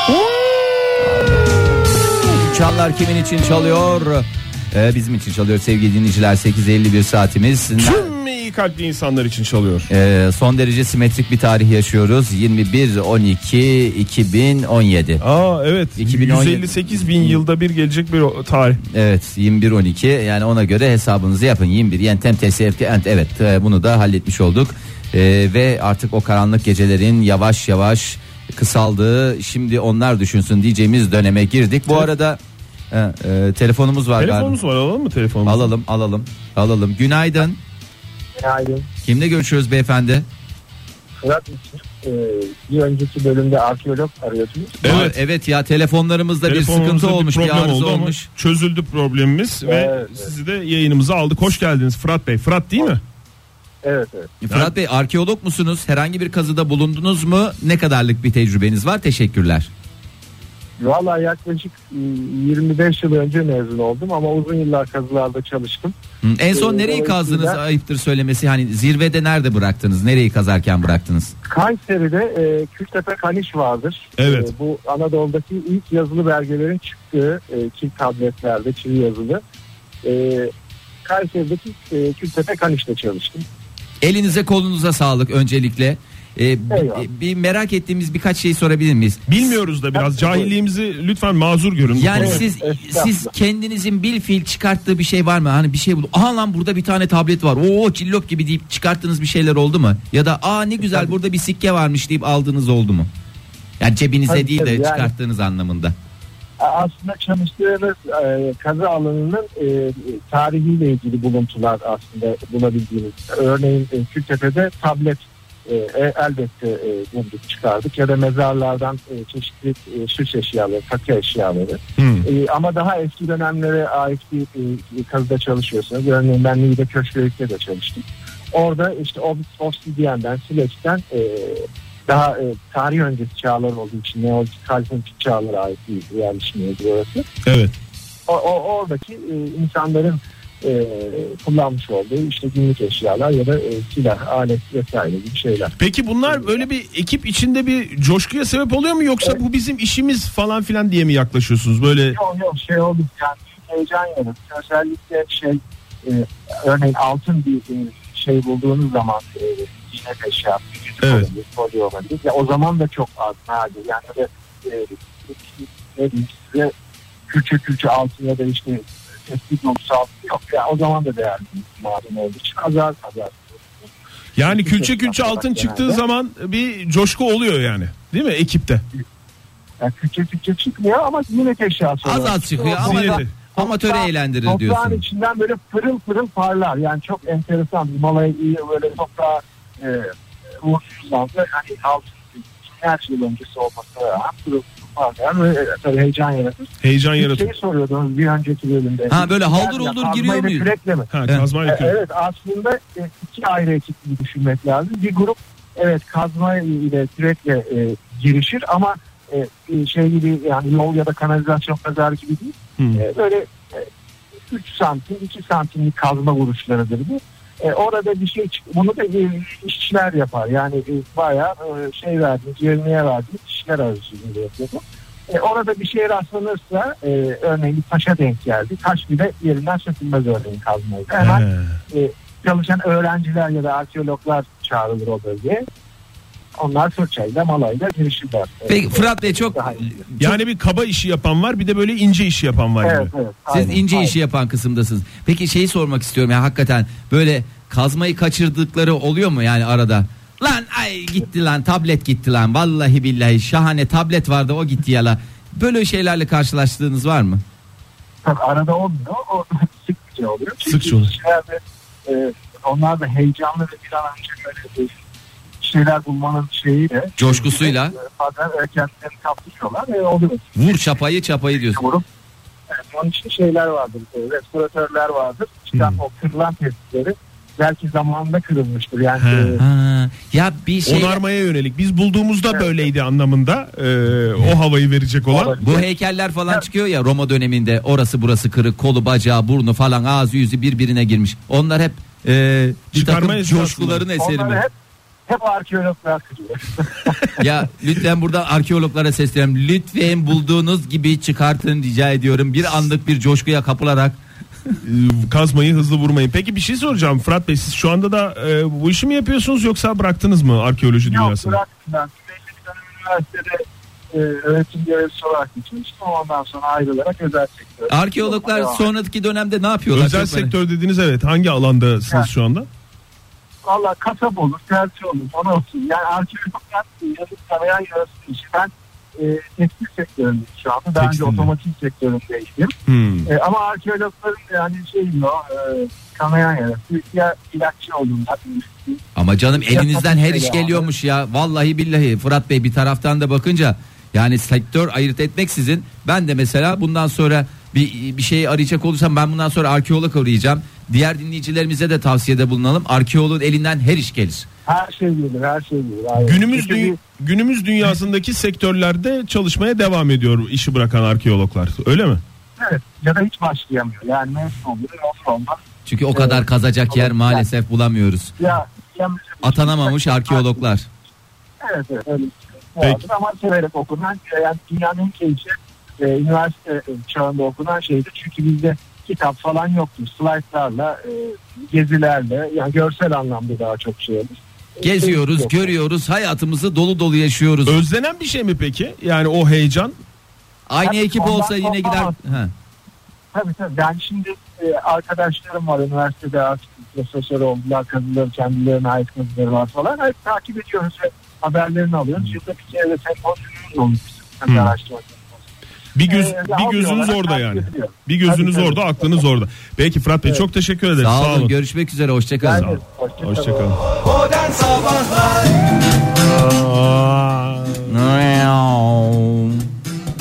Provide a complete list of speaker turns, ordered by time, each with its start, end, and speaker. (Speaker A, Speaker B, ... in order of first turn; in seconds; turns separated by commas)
Speaker A: 2.2-8.1, Speaker B: 7.8-9.9, Speaker A: 9.9-15.2, Speaker B: 15.2-18.8, Speaker A: 16.0-17.4, Speaker A: 18.8-32.4, Speaker A: 32.9-34.5, Speaker B: 34.2-35.7, Speaker A: 35.4-37.6, Speaker C: 38.3-38.9, Speaker A: 39.0-40.2, Speaker C: 41.2-45.0, Speaker B: 44.8-45.2, Speaker A: 44.8-48.2, Speaker B: 46.4-53.0, Speaker C: 49.6-50.3, Speaker C: 53.8-54.3, Speaker A: 54.4-59.7, Speaker C: 60.8-65.9, Speaker A: 66.2-71.3, Speaker C: 66.5-67.6, Speaker C: 71.4-79.4, Speaker B: 74.2-74.5, Speaker C: 80.0-80.5, Speaker C: 81.0-83.5, Speaker A: 84.0-89.3, Speaker C: 86.7-87.0, Speaker B: 89.3-92.4, Speaker C: 89.9-90.5, Speaker A: 91.9-103.1, Speaker C: 92.1-93.3, Speaker A: 103.8-105.9, Speaker C: 104.3-105.1, Speaker C: 106.6-137.2, Speaker B: 122.0-122.3, Speaker B: 137.4-137.7, Speaker C: 138.3-145.7, Speaker B: 145.8-152.2, Speaker C: 146.3-146.6, Speaker C: 152.1-166.7, Speaker B: 161.0-161.3, Speaker C: 167.3-173.9, Speaker B: 174.3-178.8, Speaker C: 174.4-176.0, Speaker C: 179.8-201.1, Speaker A: 182.0-185.0, Speaker B: 182.8-183.3, Speaker B: 196.8-197.5, Speaker A: 199.1-200.7, Speaker B: 201.1-202.0, Speaker C: 201.6-213.9, Speaker B: 212.8-213.0, Speaker C: 214.5-235.7, Speaker B: 231.2-231.8, Speaker C: 236.5-240.1, Speaker A: 238.7-240.3, Speaker B: 240.2-243.7, Speaker C: 242.8-244.1, Speaker A: 243.5-257.4, Speaker C: 258.2-264.9, Speaker B: 260.6-261.1, Speaker C: 265.6-270.6, Speaker A: 267.2-267.9, Speaker A: 270.6-271.8, Speaker C: 271.6-272.0, Speaker C: 272.7-279.6, Speaker B: 275.7-276.0, Speaker B: 279.2-279.6, Speaker A: 279.6-281.2, Speaker B: 280.8-285.6, Speaker C: 285.3-285.9, Speaker A: 285.6-294.6, Speaker B: 292.9-294.0, Speaker C: 294.2-294.7, Speaker C: 295.3-297.4, Speaker A: 297.4-304.2, Speaker B: 304.8-311.6, Speaker C: 311.0-318.8, Speaker A: 317.9-320.5, Speaker B: 319.9-322.7, Speaker C: 323.6-332.7, Speaker B: 330.9-331.5, Speaker B: 332.9-333.3, Speaker C: 333.2-339.0, Speaker A: 339.1-354.5, Speaker C: 339.5-340.9, Speaker C: 354.6-357.0, Speaker B: 356.2-362.2, Speaker C: 362.6-365.6, Speaker A: 365.9-368.3, Speaker C: 366.1-367.4, Speaker C: 368.4-370.6, Speaker A: 369.4-370.9, Speaker C: 371.6-385.7, Speaker A: 384.8-387.8, Speaker B: 387.6-390.0, Speaker A: 390.7-392.5, Speaker C: 390.8-392.2, Speaker C: 393.3-405.4, Speaker B: 404.5-404.7, Speaker B: 405.9-411.5, Speaker C: 406.1-409.2, Speaker A: 411.0-412.7, Speaker C: 412.4-413.7, Speaker B: 412.5-413.8, Speaker A: 414.3-415.3, Speaker B: 416.2-417.9, Speaker A: 417.9-419.6